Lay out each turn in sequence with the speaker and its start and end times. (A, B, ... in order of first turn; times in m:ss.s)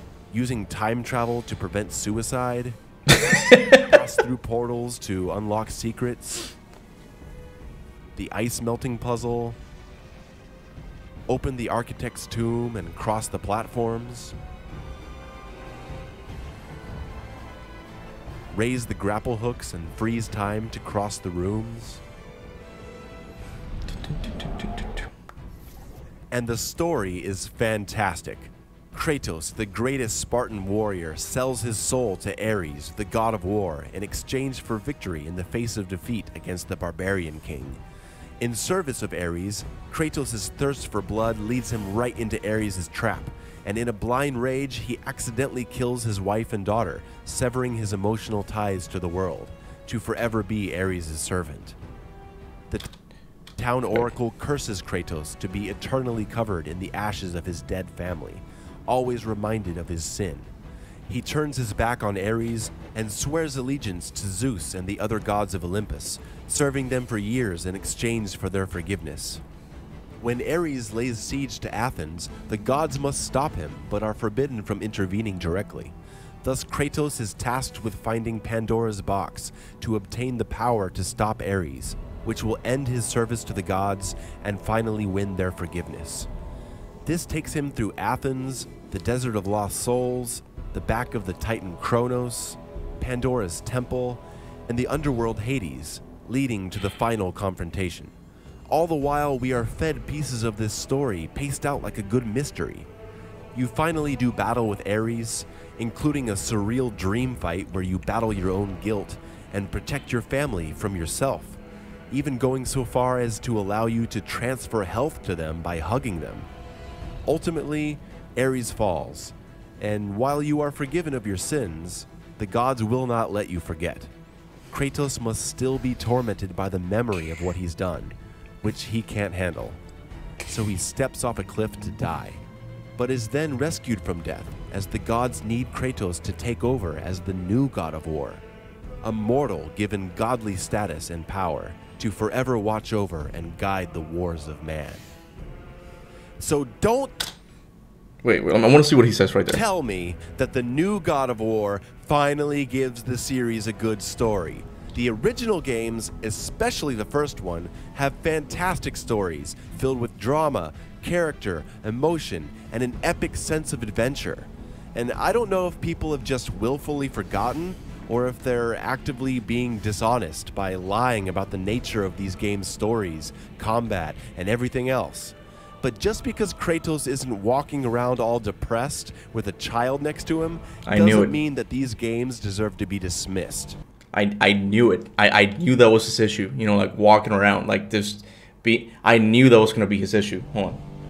0:00.3-0:02.8 A
0:03.1-0:03.8 B
0:03.5-0:06.5 A
0:08.2-0:09.6 A
0:11.3-0:14.4 A
0:18.5-0:22.0 A
0:24.4-0:24.8 B
0:26.3-0:37.8 A
0:38.4-0:51.8 A
0:53.6-1:00.5 A
1:01.1-1:09.4 A
1:10.2-1:26.3 A
1:27.0-1:38.1 A
1:38.7-1:42.9 A
1:43.5-1:51.6 A
1:52.1-1:56.5 A
1:57.2-2:04.1 A
2:04.7-2:09.8 A
2:10.5-2:12.4 A
2:13.0-2:18.4 A
2:19.0-2:25.0 A
2:26.4-2:27.3 A
2:28.2-2:29.6 B
2:29.5-3:03.8 A
3:00.9-3:01.4 B
3:04.1-3:10.8 B